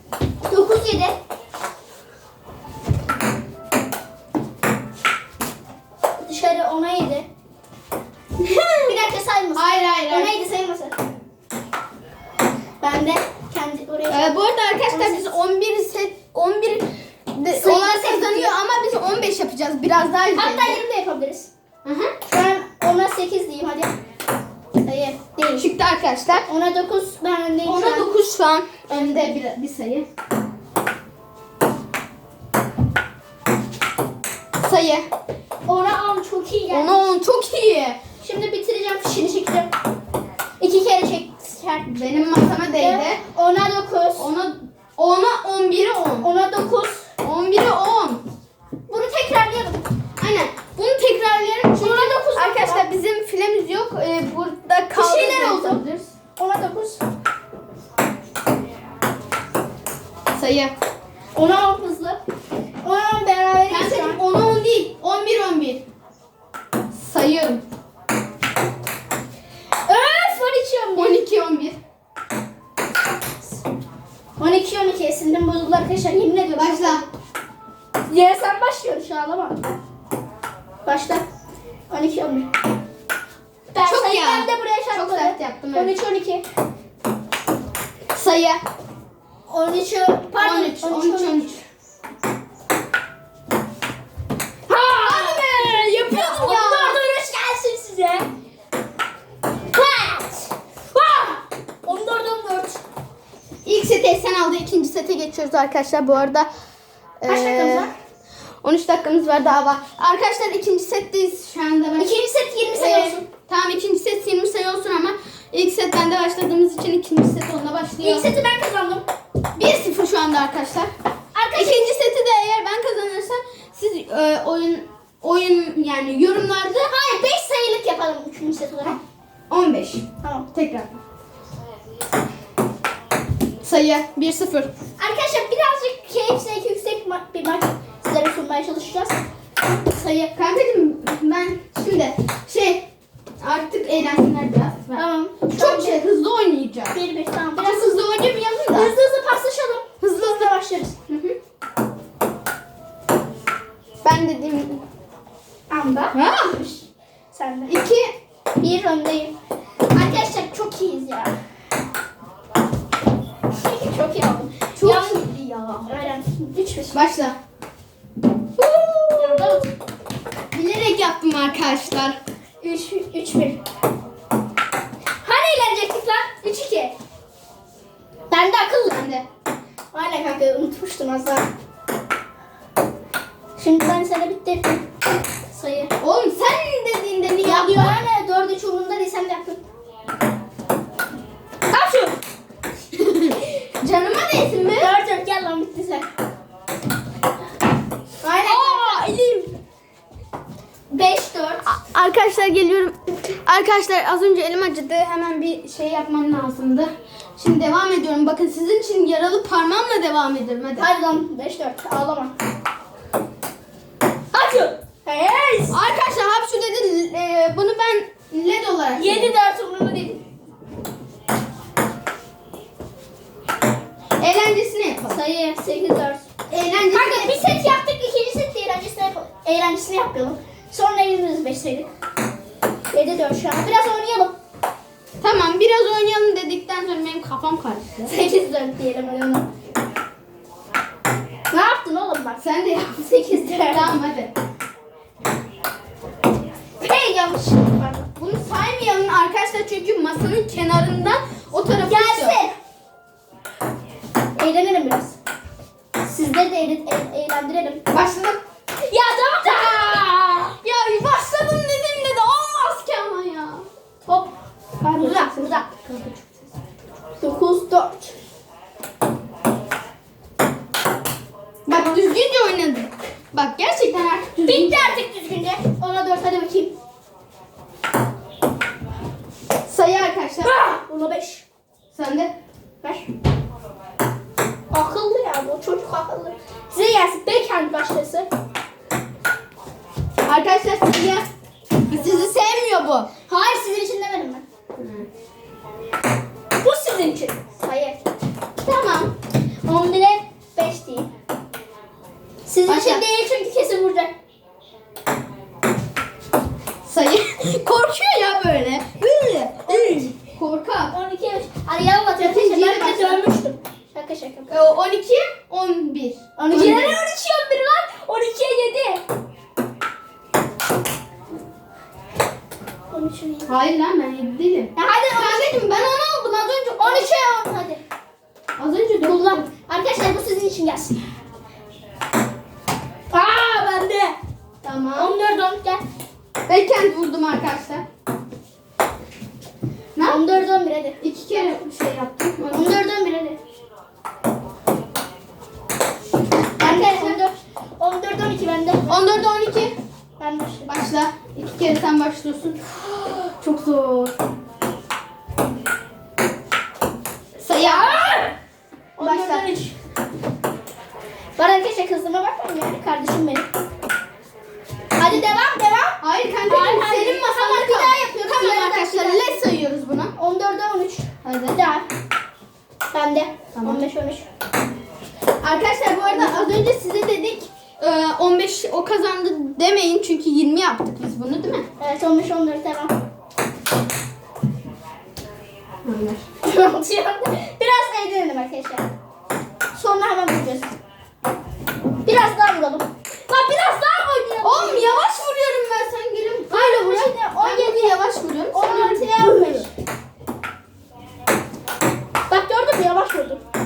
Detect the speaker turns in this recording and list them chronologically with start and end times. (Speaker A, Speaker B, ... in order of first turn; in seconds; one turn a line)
Speaker A: 0.5-1.2
Speaker A: 6.2-7.3
Speaker B: 8.4-8.9
Speaker A: 8.8-11.0
Speaker B: 9.6-10.3
Speaker A: 12.8-15.3
Speaker B: 14.1-20.8
Speaker A: 17.5-18.5
Speaker A: 20.3-21.5
Speaker B: 21.8-22.1
Speaker A: 22.2-23.9
Speaker A: 24.8-25.7
Speaker B: 25.6-26.4
Speaker A: 26.5-28.1
Speaker B: 27.6-30.1
Speaker A: 28.9-29.4
Speaker B: 34.6-35.0
Speaker A: 35.6-37.0
Speaker B: 36.7-38.0
Speaker A: 38.2-39.7
Speaker A: 40.6-42.0
Speaker B: 41.9-43.2
Speaker A: 42.7-44.3
Speaker B: 44.2-46.3
Speaker A: 46.2-47.1
Speaker B: 47.2-48.2
Speaker A: 48.9-49.9
Speaker B: 50.2-56.1
Speaker A: 51.7-52.9
Speaker A: 54.9-55.8
Speaker A: 56.4-57.0
Speaker B: 60.3-60.7
Speaker A: 61.3-62.2
Speaker A: 62.8-64.2
Speaker B: 63.7-65.8
Speaker B: 66.9-67.6
Speaker A: 69.8-71.2
Speaker B: 70.9-71.8
Speaker A: 74.4-77.0
Speaker B: 76.5-77.0
Speaker A: 78.1-79.6
Speaker A: 80.8-81.2
Speaker A: 81.9-82.5
Speaker A: 83.7-86.4
Speaker B: 83.8-85.9
Speaker B: 88.1-88.6
Speaker A: 89.5-91.6
Speaker B: 90.4-91.6
Speaker A: 94.7-98.3
Speaker B: 94.9-97.0
Speaker A: 99.7-102.8
Speaker B: 103.6-106.5
Speaker B: 107.2-107.9
Speaker A: 107.2-107.9
Speaker B: 108.6-112.2
Speaker A: 112.0-113.2
Speaker B: 112.7-118.3
Speaker A: 118.0-119.0
Speaker B: 119.5-120.9
Speaker A: 121.3-122.0
Speaker B: 121.5-126.9
Speaker A: 126.8-129.0
Speaker B: 129.5-131.0
Speaker A: 130.2-130.5
Speaker B: 133.6-134.7
Speaker A: 135.0-139.2
Speaker A: 139.9-140.3
Speaker B: 140.1-142.8
Speaker B: 143.4-146.9
Speaker A: 144.9-146.0
Speaker A: 146.9-148.0
Speaker B: 147.6-148.9
Speaker A: 148.7-150.9
Speaker B: 150.0-150.5
Speaker B: 151.1-151.3
Speaker B: 154.0-154.8
Speaker A: 155.7-157.8
Speaker B: 156.1-156.6
Speaker B: 157.7-158.1
Speaker A: 158.6-159.3
Speaker A: 159.9-161.3
Speaker A: 163.5-165.2
Speaker B: 164.8-165.9
Speaker A: 165.8-166.9
Speaker B: 166.9-167.3
Speaker B: 168.6-169.7
Speaker A: 169.2-169.7
Speaker B: 170.5-172.2
Speaker A: 172.6-173.6
Speaker A: 175.2-176.9
Speaker A: 178.3-179.1
Speaker B: 178.9-179.2
Speaker A: 179.9-181.5
Speaker A: 183.6-184.8
Speaker A: 185.5-185.9
Speaker B: 186.0-188.0
Speaker A: 187.4-189.6
Speaker A: 191.7-192.2
Speaker B: 192.9-195.0
Speaker A: 194.7-196.1
Speaker A: 198.2-199.0
Speaker B: 198.4-199.5
Speaker A: 200.9-201.7
Speaker B: 201.7-210.9
Speaker A: 210.8-212.3
Speaker A: 214.3-215.8
Speaker B: 215.7-219.3
Speaker A: 218.9-220.2
Speaker B: 224.2-225.2
Speaker A: 225.0-226.2
Speaker B: 226.5-227.4
Speaker A: 226.9-231.9
Speaker A: 232.9-234.3
Speaker B: 235.2-238.3
Speaker A: 238.1-239.5
Speaker A: 241.5-242.4
Speaker B: 242.4-243.0
Speaker A: 243.0-243.9
Speaker B: 243.7-244.3
Speaker A: 246.8-248.1
Speaker B: 248.2-252.4
Speaker A: 251.8-252.5
Speaker A: 254.3-255.2
Speaker A: 256.0-257.8
Speaker B: 257.9-258.4
Speaker A: 258.8-260.5
Speaker B: 259.4-263.6
Speaker A: 264.1-265.6
Speaker B: 265.0-266.3
Speaker A: 267.2-268.1
Speaker B: 271.7-275.0
Speaker A: 274.4-276.7
Speaker B: 279.7-280.5
Speaker A: 280.4-281.4
Speaker B: 281.9-282.3
Speaker A: 282.8-283.1
Speaker A: 284.7-288.3
Speaker B: 290.2-291.2
Speaker B: 291.9-293.1
Speaker A: 293.3-294.4
Speaker B: 294.8-295.1
Speaker A: 296.6-298.0
Speaker B: 298.6-299.1
Speaker A: 299.6-301.1
Speaker A: 302.4-304.1
Speaker B: 302.6-303.0
Speaker B: 306.8-310.9
Speaker A: 309.7-310.1
Speaker A: 310.9-314.5
Speaker B: 312.2-313.2
Speaker B: 314.5-317.0
Speaker A: 316.4-319.0
Speaker A: 322.9-323.5
Speaker B: 323.5-327.3
Speaker A: 324.8-325.6
Speaker A: 326.8-327.8
Speaker B: 328.6-329.4
Speaker A: 329.0-331.0
Speaker A: 333.1-334.1
Speaker B: 334.6-335.2
Speaker A: 334.9-335.8
Speaker B: 336.5-337.8
Speaker B: 339.9-340.3
Speaker A: 340.0-341.0
Speaker B: 341.0-342.8
Speaker A: 342.5-343.4
Speaker B: 346.6-347.2
Speaker A: 346.6-349.0
Speaker B: 348.9-349.7
Speaker A: 350.2-350.8
Speaker B: 350.6-354.1
Speaker B: 357.4-358.2
Speaker A: 357.6-358.3
Speaker B: 359.0-359.5
Speaker A: 359.0-359.7
Speaker A: 361.4-363.5
Speaker A: 365.0-369.4
Speaker B: 366.0-370.1
Speaker A: 370.1-371.9
Speaker B: 371.2-371.6
Speaker A: 372.9-374.2
Speaker B: 373.5-373.8
Speaker B: 375.4-381.7
Speaker A: 376.0-376.5
Speaker A: 381.8-382.9
Speaker B: 385.8-386.2
Speaker A: 386.4-388.9
Speaker A: 389.7-390.7
Speaker A: 392.0-395.0
Speaker B: 394.4-399.6
Speaker A: 396.5-398.0
Speaker A: 398.5-399.7
Speaker A: 402.3-403.4